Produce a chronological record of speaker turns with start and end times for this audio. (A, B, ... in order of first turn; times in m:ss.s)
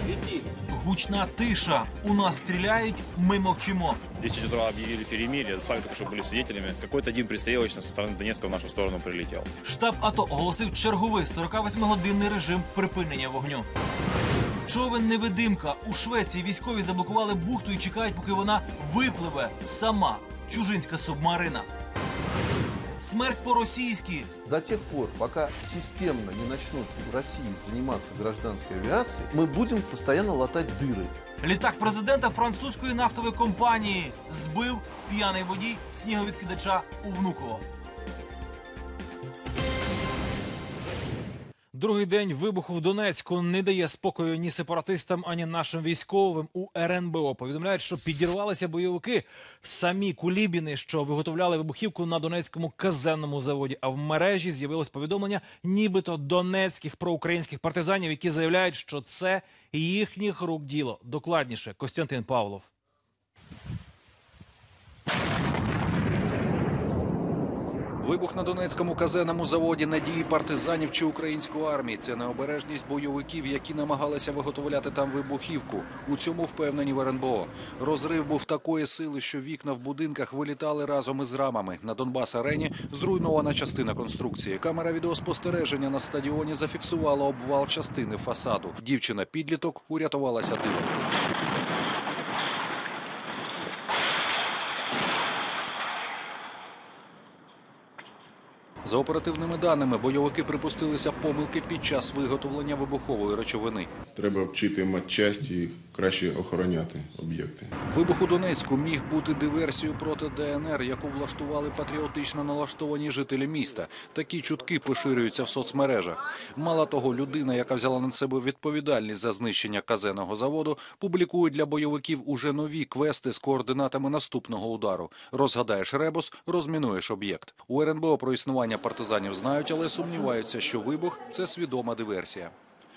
0:00.7-0:04.0 A
0:04.2-0:09.5 B
0:09.6-0:13.7 A
0:14.7-0:21.7 A
0:23.0-0:24.3 A
0:24.5-0:31.2 C
0:31.4-0:37.6 A
0:41.7-1:02.7 A
1:08.0-1:31.0 D
1:38.8-1:43.9 D
1:44.2-1:47.7 E
1:47.9-2:12.6 D